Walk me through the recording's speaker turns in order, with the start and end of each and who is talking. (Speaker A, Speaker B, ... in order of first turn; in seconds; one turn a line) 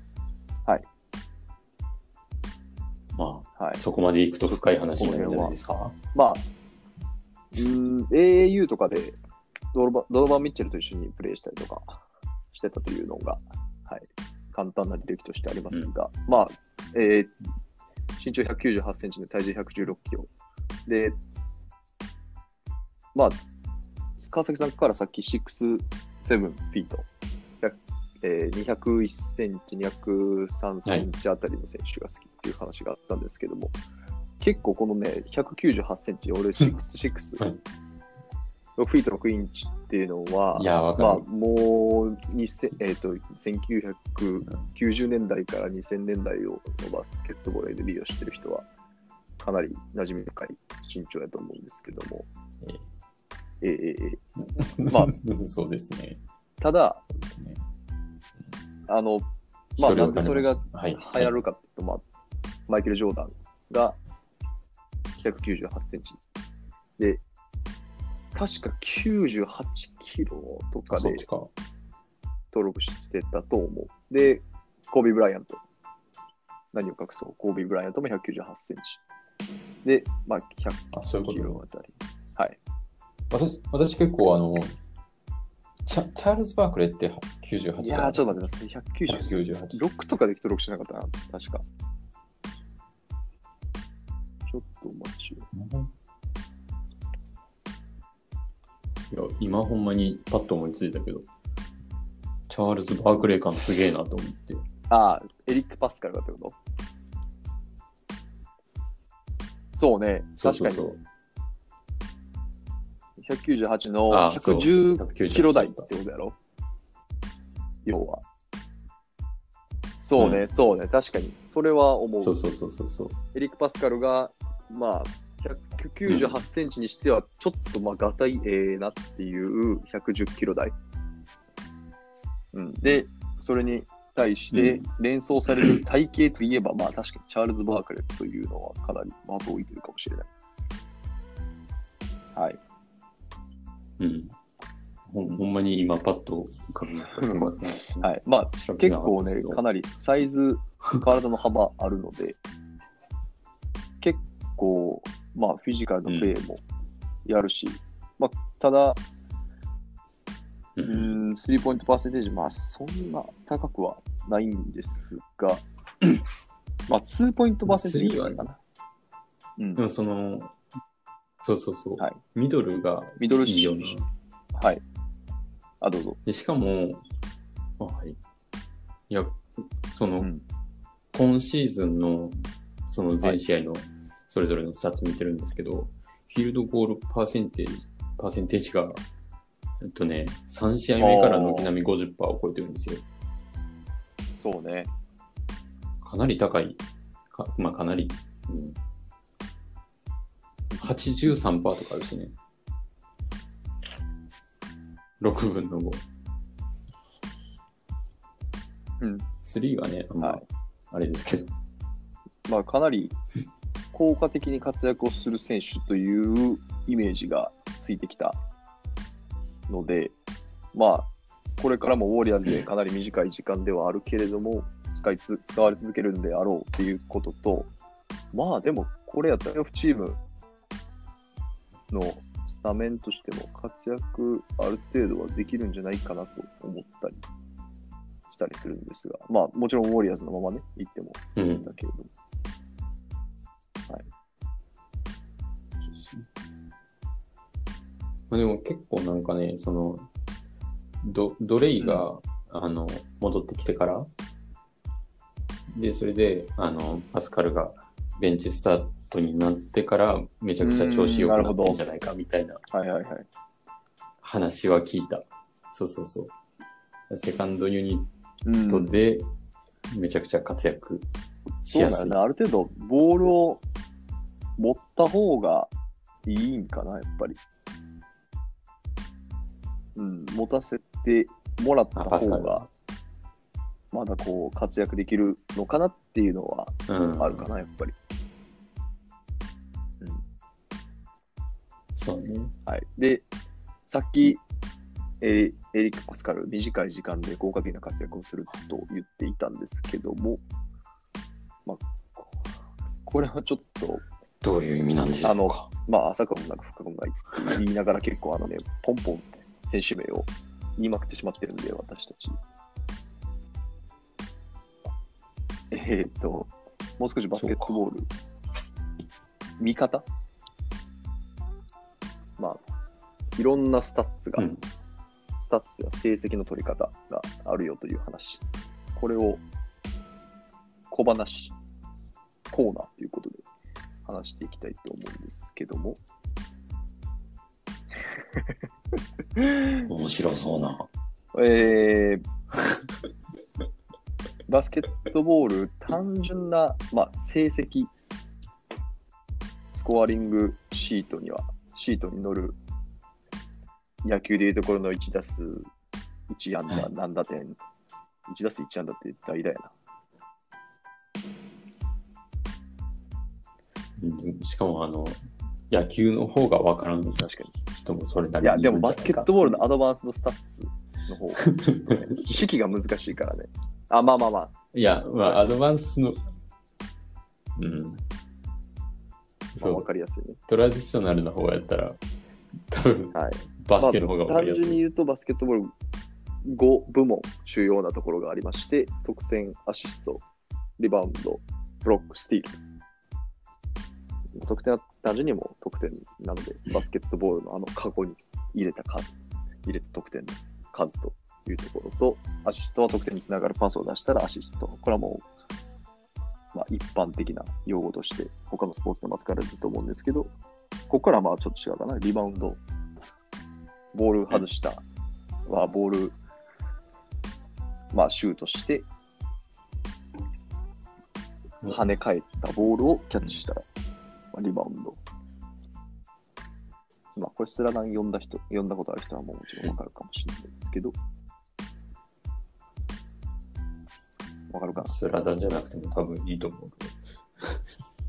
Speaker A: 3.1-6.0
Speaker B: 5.0-5.6
Speaker B: 6.1-6.5
Speaker B: 7.5-9.2
Speaker B: 9.7-17.3
Speaker B: 18.2-20.3
Speaker B: 20.9-21.2
Speaker B: 24.2-27.1
Speaker B: 27.6-33.7
Speaker B: 34.4-37.4
Speaker B: 38.8-48.7
Speaker A: 40.5-41.2
Speaker B: 49.4-52.3
Speaker B: 53.6-54.2
Speaker A: 54.6-56.2
Speaker B: 54.9-55.1
Speaker B: 56.6-57.0
Speaker A: 57.1-57.6
Speaker B: 58.9-62.0
Speaker A: 59.8-61.3
Speaker B: 62.7-64.0
Speaker B: 65.2-66.2
Speaker B: 68.3-71.2
Speaker A: 70.9-71.5
Speaker B: 72.5-75.6
Speaker B: 76.7-79.0
Speaker B: 79.8-82.6
Speaker A: 80.9-81.6
Speaker A: 83.3-84.8
Speaker A: 85.9-88.4
Speaker B: 87.8-91.6
Speaker A: 89.1-89.8
Speaker B: 94.5-95.5
Speaker A: 95.5-95.9
Speaker A: 99.1-101.3
Speaker A: 102.5-104.6
Speaker B: 104.9-106.6
Speaker B: 109.7-110.9
Speaker A: 110.4-111.0
Speaker B: 113.2-116.4
Speaker A: 114.1-115.9
Speaker B: 117.9-118.2
Speaker B: 120.0-122.4
Speaker A: 120.2-120.5
Speaker A: 122.2-123.2
Speaker B: 123.3-130.8
Speaker A: 126.1-126.4
Speaker B: 132.5-140.3
Speaker A: 134.5-134.8
Speaker A: 144.0-144.3
Speaker A: 145.1-149.6
Speaker B: 147.1-152.4
Speaker B: 154.0-156.6
Speaker A: 156.1-156.3
Speaker B: 157.2-159.0
Speaker A: 160.8-161.1
Speaker B: 160.9-165.6
Speaker B: 166.9-168.6
Speaker A: 167.7-168.4
Speaker B: 169.6-169.8
Speaker A: 169.8-170.5
Speaker A: 171.4-174.1
Speaker B: 173.2-174.0
Speaker B: 174.6-174.8
Speaker B: 175.8-176.2
Speaker A: 176.3-177.0
Speaker A: 177.8-178.2
Speaker A: 179.1-180.3
Speaker A: 181.1-189.0
Speaker A: 189.8-193.1
Speaker B: 191.0-191.7
Speaker B: 194.3-194.9
Speaker A: 196.0-198.8
Speaker A: 200.8-202.3
Speaker A: 205.2-206.0
Speaker B: 209.0-209.3
Speaker A: 209.4-211.5
Speaker B: 210.2-210.4
Speaker B: 212.5-213.2
Speaker B: 213.9-218.4
Speaker B: 219.7-220.1
Speaker B: 220.7-227.7
Speaker B: 228.3-230.2
Speaker B: 231.9-237.2
Speaker B: 238.3-242.1
Speaker A: 241.4-241.7
Speaker A: 245.8-246.3
Speaker A: 248.3-250.1
Speaker A: 251.0-254.1
Speaker B: 251.8-252.1
Speaker A: 255.7-262.6
Speaker B: 260.6-261.8
Speaker B: 262.7-263.3
Speaker A: 264.2-266.3
Speaker A: 267.1-268.1
Speaker B: 268.4-269.0
Speaker A: 268.7-269.3
Speaker A: 269.9-271.1
Speaker A: 271.7-272.2
Speaker B: 271.7-273.6
Speaker B: 274.6-275.7
Speaker B: 276.3-277.4
Speaker B: 279.9-282.7
Speaker A: 281.9-282.7
Speaker B: 283.9-287.9
Speaker A: 286.9-287.5
Speaker A: 291.9-292.5
Speaker B: 292.7-293.2
Speaker B: 293.9-294.4
Speaker B: 295.2-300.4
Speaker B: 301.7-302.3
Speaker B: 303.1-304.1
Speaker A: 304.4-305.7
Speaker B: 305.2-312.4
Speaker B: 315.7-318.1
Speaker A: 317.4-317.8
Speaker B: 319.6-320.1
Speaker B: 323.4-324.5
Speaker A: 324.4-324.6
Speaker B: 325.4-328.4
Speaker B: 328.9-329.4
Speaker B: 330.9-331.6
Speaker B: 332.5-333.4
Speaker B: 334.1-336.0
Speaker B: 339.4-339.9
Speaker A: 339.9-340.9
Speaker B: 341.3-342.2
Speaker B: 344.5-347.9
Speaker B: 349.7-352.6
Speaker B: 354.0-355.7
Speaker B: 356.3-357.6
Speaker B: 358.3-359.7
Speaker A: 364.0-369.6
Speaker B: 367.1-367.5
Speaker B: 368.4-374.5
Speaker A: 371.5-372.4
Speaker A: 374.7-376.2
Speaker B: 375.2-375.5
Speaker A: 377.6-378.0
Speaker A: 379.6-379.9
Speaker B: 379.6-380.4
Speaker A: 380.5-382.0
Speaker A: 382.7-384.8
Speaker B: 383.1-385.7
Speaker B: 386.4-390.2
Speaker B: 390.8-392.6
Speaker B: 394.4-399.1
Speaker B: 399.7-405.3
Speaker B: 406.5-410.3
Speaker B: 410.9-412.6
Speaker B: 413.9-414.8
Speaker B: 415.5-416.2
Speaker B: 417.9-418.9
Speaker B: 421.7-423.6
Speaker B: 424.3-425.0
Speaker B: 427.2-430.9
Speaker B: 434.5-434.9
Speaker A: 434.8-437.6